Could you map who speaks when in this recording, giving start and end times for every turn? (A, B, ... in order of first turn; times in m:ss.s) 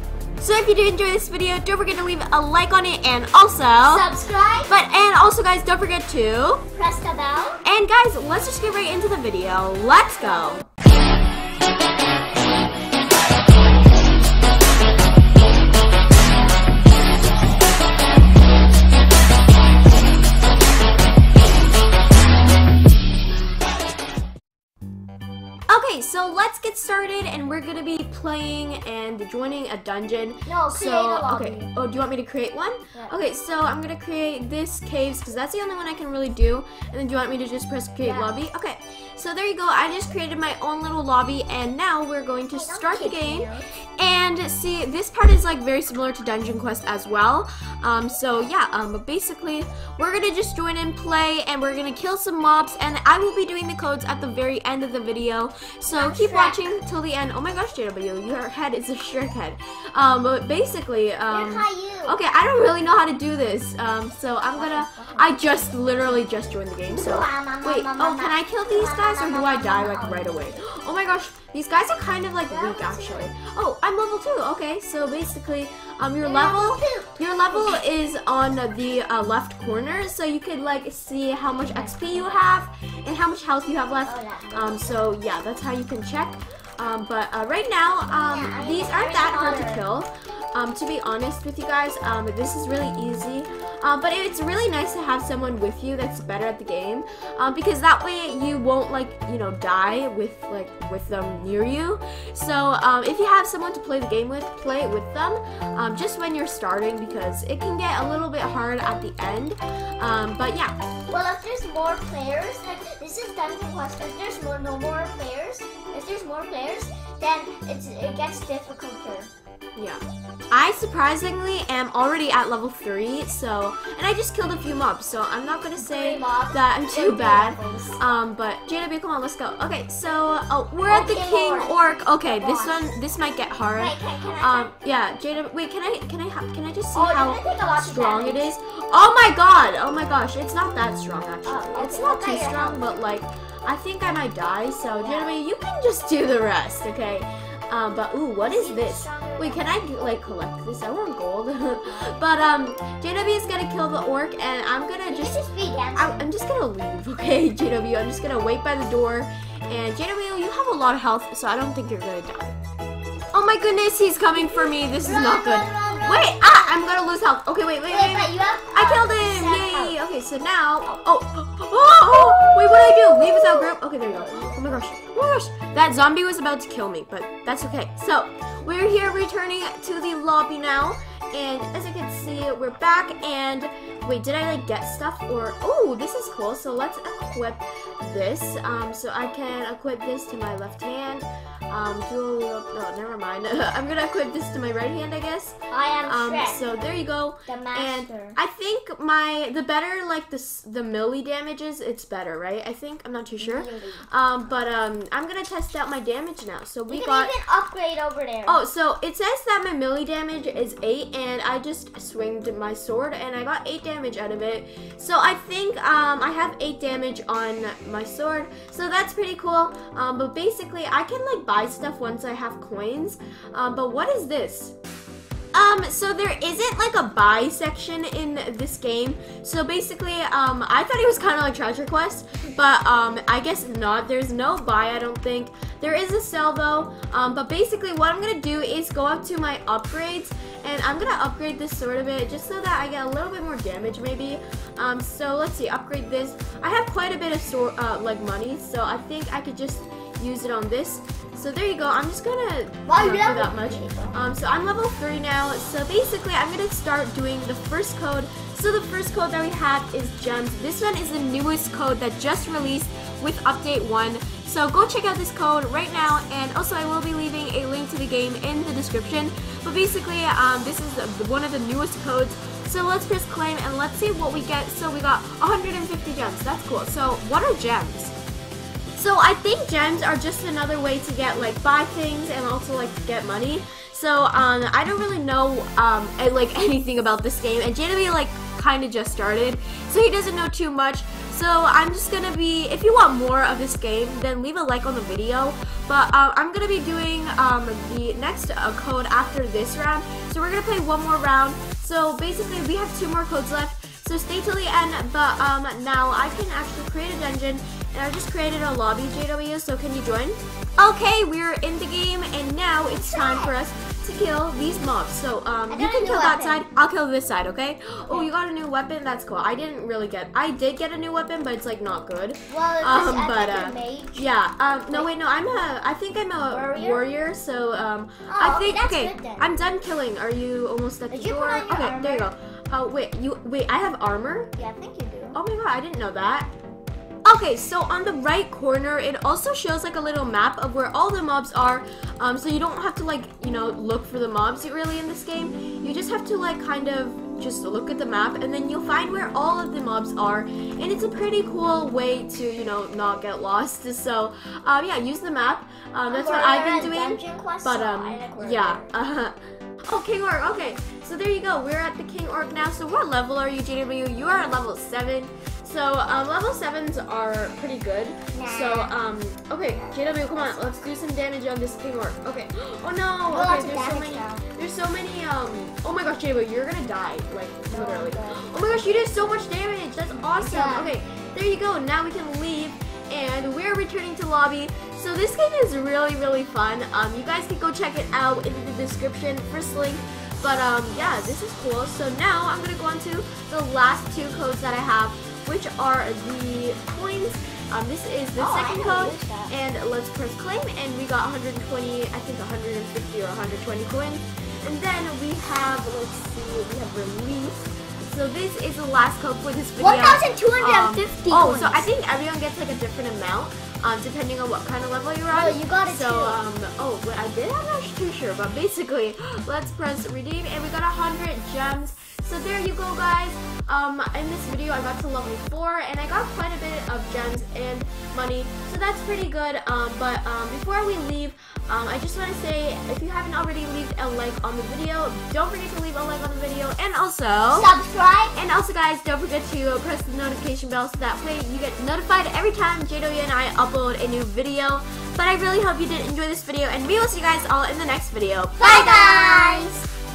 0:00.4-0:04.1 A
0:03.8-0:04.7 B
0:04.7-0:06.6 A
0:06.7-0:07.6 B
0:07.6-0:10.6 A
0:10.2-0:10.6 B
0:25.7-1:50.7 A
0:30.4-0:31.7 B
0:38.0-0:38.3 B
0:42.5-0:43.7 B
0:55.9-0:56.7 B
1:01.3-1:02.2 B
1:04.5-1:05.9 B
1:06.9-1:10.6 B
1:12.5-1:13.3 B
1:16.2-1:17.8 B
1:21.6-1:22.3 B
1:24.0-1:24.8 B
1:28.1-1:29.8 B
1:51.1-1:59.3 B
1:59.8-2:35.4 A
2:05.8-2:08.0 B
2:10.9-2:12.9 B
2:13.7-2:14.7 B
2:16.9-2:18.5 B
2:21.4-2:22.9 B
2:25.0-2:25.3 B
2:28.4-2:30.2 B
2:31.8-2:32.2 B
2:35.1-2:36.2 B
2:35.9-2:42.6 A
2:43.3-3:27.3 A
2:44.3-2:47.0 B
2:47.8-2:50.0 B
2:52.1-2:55.0 B
3:15.7-3:16.6 B
3:17.5-3:18.4 B
3:23.4-3:24.1 B
3:26.9-3:28.6 B
3:28.4-3:44.7 A
3:45.5-4:38.1 A
4:12.8-4:14.1 B
4:39.0-5:34.5 A
5:12.9-5:13.5 B
5:15.7-5:16.6 B
5:18.0-5:18.3 B
5:22.5-5:24.3 B
5:24.9-5:25.1 B
5:26.5-5:27.1 B
5:28.3-5:29.4 B
5:31.1-5:32.3 B
5:34.6-5:35.4 B
5:35.3-5:36.5 A
5:37.2-5:59.3 A
5:56.0-5:58.9 B
5:59.9-7:17.7 A
6:08.3-6:08.9 B
6:09.7-6:10.9 B
6:13.3-6:14.4 B
6:17.7-6:19.2 B
6:20.4-6:20.9 B
6:30.9-6:31.3 B
6:38.4-6:39.5 B
6:49.8-6:51.8 B
6:55.3-6:56.4 B
7:17.5-7:18.4 B
7:18.3-7:29.2 A
7:28.6-7:29.8 B